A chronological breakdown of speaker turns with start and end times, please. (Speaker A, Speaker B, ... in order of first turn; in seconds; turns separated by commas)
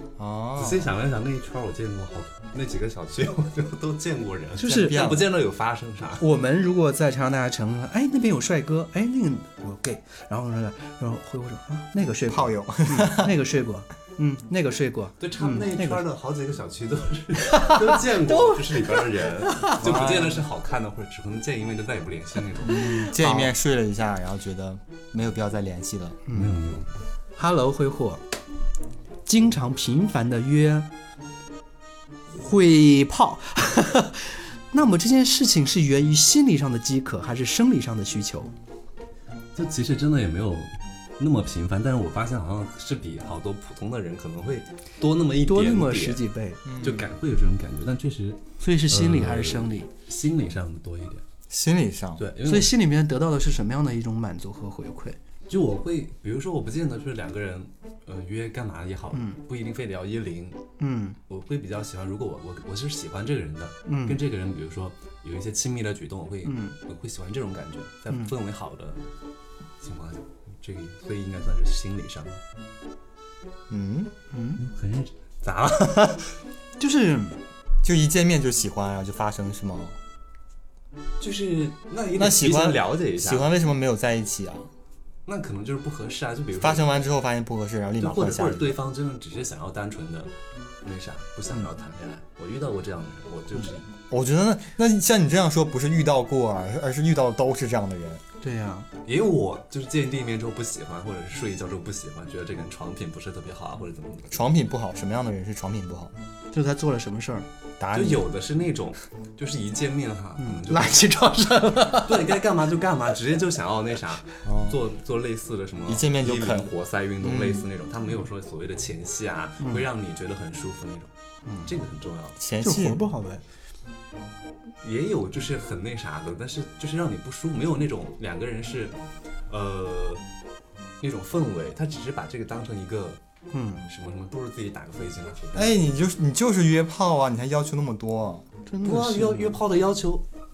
Speaker A: 0.2-0.9, Speaker B: 0.6-6.2, Speaker C: 4.6-5.1, Speaker A: 4.7-5.3, Speaker C: 6.2-16.0, Speaker A: 12.3-13.3, Speaker B: 15.2-23.0, Speaker C: 17.4-19.8, Speaker A: 19.8-20.4, Speaker A: 22.6-26.2, Speaker C: 22.7-23.5, Speaker C: 26.3-26.6, Speaker B: 26.3-26.9, Speaker C: 27.4-28.2, Speaker C: 29.2-30.9, Speaker C: 32.3-38.5, Speaker B: 39.5-46.2, Speaker C: 45.4-46.6, Speaker A: 46.6-47.0, Speaker B: 46.8-51.2, Speaker C: 48.6-49.9, Speaker A: 51.5-52.2, Speaker B: 52.2-52.7, Speaker C: 52.4-55.2, Speaker B: 55.5-60.6, Speaker C: 59.1-59.4, Speaker C: 60.8-61.2, Speaker B: 61.3-69.0, Speaker C: 63.9-64.2, Speaker C: 66.4-66.8, Speaker B: 69.8-72.4, Speaker A: 73.7-74.1, Speaker C: 74.3-74.6, Speaker B: 74.6-76.4, Speaker C: 76.8-77.4, Speaker A: 77.8-80.0, Speaker B: 81.2-83.5, Speaker A: 82.2-84.7, Speaker B: 85.2-86.9, Speaker A: 86.6-88.8, Speaker B: 88.0-90.3, Speaker B: 90.8-93.9, Speaker A: 94.1-98.2, Speaker C: 98.4-98.9, Speaker B: 99.0-104.4, Speaker A: 104.3-106.1, Speaker C: 106.5-107.5, Speaker A: 107.8-108.2, Speaker B: 107.9-111.1, Speaker C: 110.4-112.4, Speaker B: 111.8-121.1, Speaker A: 114.4-114.8, Speaker A: 115.8-117.7, Speaker C: 121.5-121.7, Speaker B: 121.6-122.4, Speaker A: 122.4-123.0, Speaker C: 122.6-123.4, Speaker B: 124.8-129.0, Speaker B: 129.5-130.2, Speaker B: 131.0-133.2, Speaker C: 133.5-133.8, Speaker B: 133.8-135.8, Speaker A: 135.5-138.5, Speaker C: 138.7-139.6, Speaker B: 138.8-140.2